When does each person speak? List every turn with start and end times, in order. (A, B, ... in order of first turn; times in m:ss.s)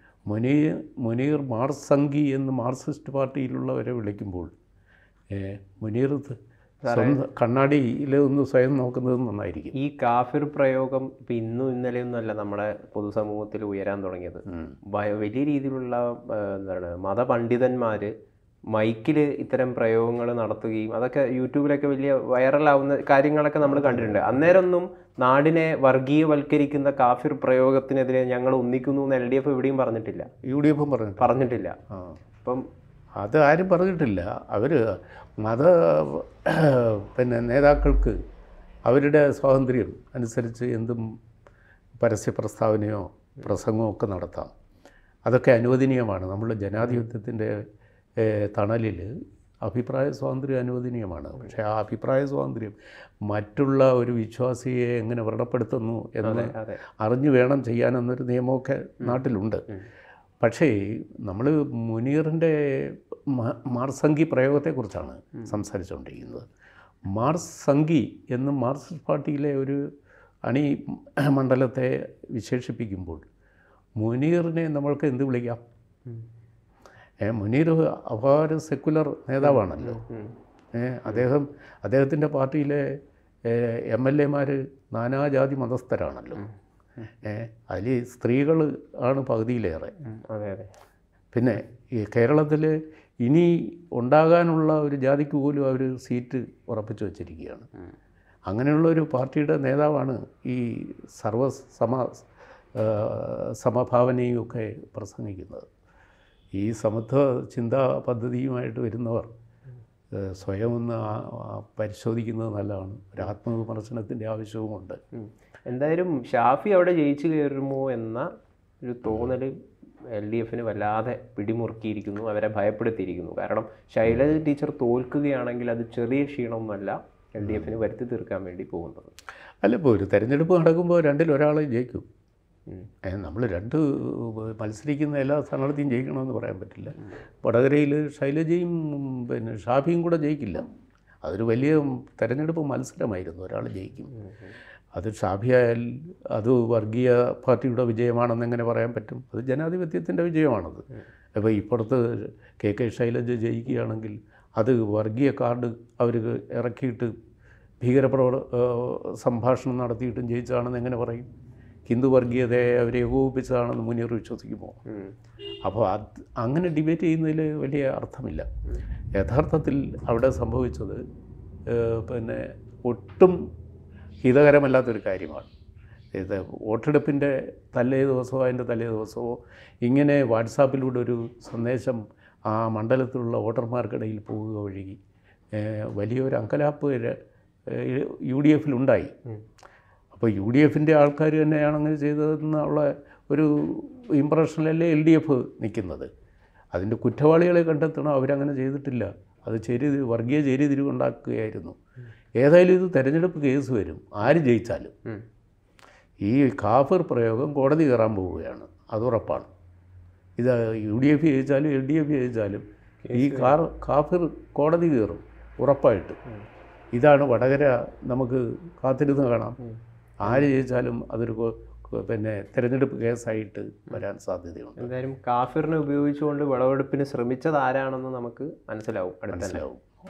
0:00.3-0:04.5 A
0:05.3-0:06.4 A
0:06.8-0:07.2 B
0:06.9-0:09.7 A
0:09.7-0:18.1 B
0:14.5-0:14.8 A
0:18.7-0:30.3 B
0:23.6-0:24.5 A
0:30.4-0:32.2 A
0:31.2-0:31.8 B
0:32.4-0:32.6 B
0:33.2-0:34.8 A
0:35.4-0:38.1 A
0:38.9-0:41.0 A
0:42.0-0:44.5 A
0:45.2-0:47.5 A
0:48.2-0:49.1 A
0:49.6-0:52.8 A
0:53.3-0:59.6 A
0:56.2-0:56.8 B
1:00.4-1:06.5 A
1:07.1-1:09.8 A
1:10.5-1:13.3 A
1:14.0-1:15.6 A
1:17.2-1:20.0 A
1:19.4-1:20.3 B
1:20.7-1:22.8 A
1:23.4-1:26.4 A
1:27.2-1:29.9 A
1:30.0-1:30.7 B
1:31.3-1:37.7 A
1:38.5-1:45.7 A
1:46.5-1:49.3 A
1:50.1-1:55.0 A
1:55.1-1:58.3 B
1:58.8-1:59.6 B
1:59.1-1:59.3 A
2:00.1-2:09.1 B
2:07.4-2:07.8 A
2:09.6-2:12.1 A
2:13.0-2:20.7 A
2:21.2-2:24.1 A
2:24.2-2:24.5 B
2:24.9-2:30.8 A
2:31.4-2:37.1 A
2:37.8-2:41.3 A
2:41.9-2:44.8 A
2:45.6-2:48.5 A
2:49.2-2:51.0 A
2:51.7-2:53.4 A
2:54.2-2:55.5 A
2:56.1-3:05.0 A
3:05.5-3:09.1 A
3:10.1-3:16.1 A
3:16.7-3:21.8 A
3:22.4-3:24.9 A
3:26.2-3:29.5 A
3:30.4-3:36.2 A
3:33.0-3:33.6 B
3:36.9-3:39.6 A
3:40.2-3:45.0 A
3:44.8-3:49.6 B
3:49.3-3:49.9 A